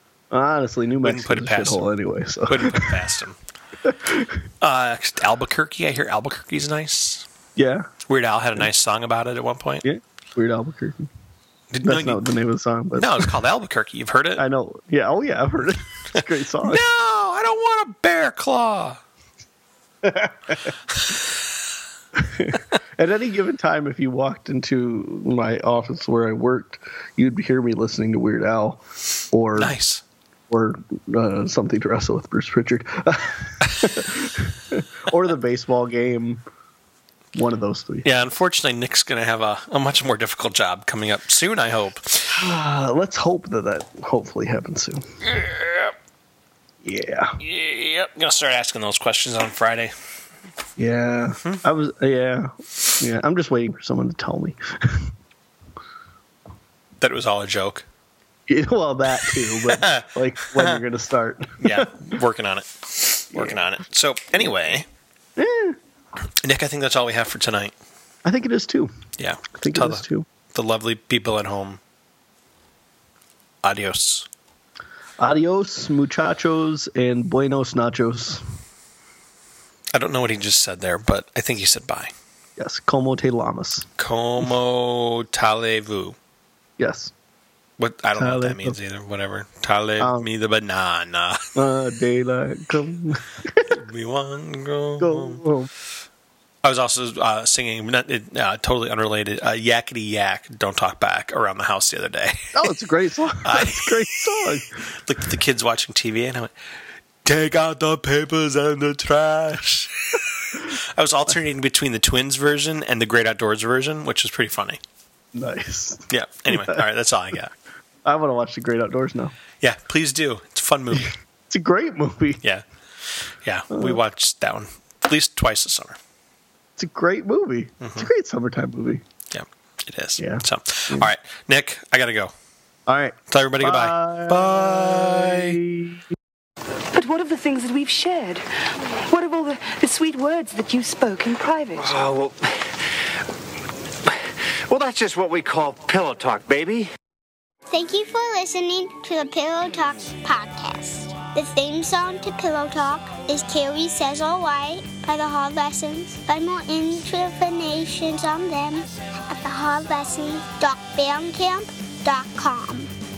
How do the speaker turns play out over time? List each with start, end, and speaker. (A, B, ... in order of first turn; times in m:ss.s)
0:00.3-0:02.9 A
0:01.0-0:01.9 B
0:02.4-0:03.4 B
0:03.8-0:04.4 A
0:04.6-0:07.2 B
0:07.6-0:07.9 A
0:08.0-0:09.8 B
0:09.8-0:11.1 A
0:11.7-0:12.2 B
0:11.8-0:13.3 A
0:13.0-0:14.4 B
0:14.4-0:16.8 A
0:16.6-0:19.0 B
0:20.0-0:20.5 A
0:22.1-0:29.7 A
0:29.6-0:30.0 B
0:30.5-0:36.4 A
0:37.3-0:38.0 A
0:38.0-0:42.3 B
0:42.3-0:45.0 A
0:45.3-0:45.9 B
0:46.8-0:47.4 A
0:47.4-0:49.9 B
0:50.8-0:55.1 A
0:57.0-0:57.8 B
0:58.5-1:02.1 A
0:59.1-1:00.8 B
1:01.6-1:04.9 B
1:05.4-1:05.8 A
1:06.4-1:07.7 B
1:08.2-1:08.9 A
1:09.2-1:11.8 B
1:09.5-1:10.3 A
1:13.6-1:14.3 B
1:15.2-1:18.4 A
1:19.9-1:22.1 B
1:22.6-1:23.9 A
1:24.0-1:26.2 B
1:26.8-1:27.1 A
1:27.8-1:31.4 B
1:28.2-1:28.8 A
1:30.0-1:30.3 A
1:31.5-1:33.8 A
1:33.7-1:35.4 B
1:35.0-1:35.7 A
1:36.6-1:42.7 B
1:42.5-1:44.8 A
1:43.4-1:46.5 B
1:47.2-1:54.8 B
1:55.3-1:56.8 A
1:56.1-1:57.5 B
1:58.0-1:59.3 A
1:59.6-2:01.1 B
2:01.0-2:02.4 A
2:02.4-2:06.0 B
2:03.7-2:04.0 A
2:06.8-2:09.0 A
2:07.8-2:08.1 B
2:09.3-2:12.3 B
2:10.2-2:11.1 A
2:12.9-2:16.0 A
2:13.3-2:15.6 B
2:16.9-2:22.0 C
2:22.0-2:22.4 D
2:24.7-2:26.9 D
2:27.7-2:42.9 E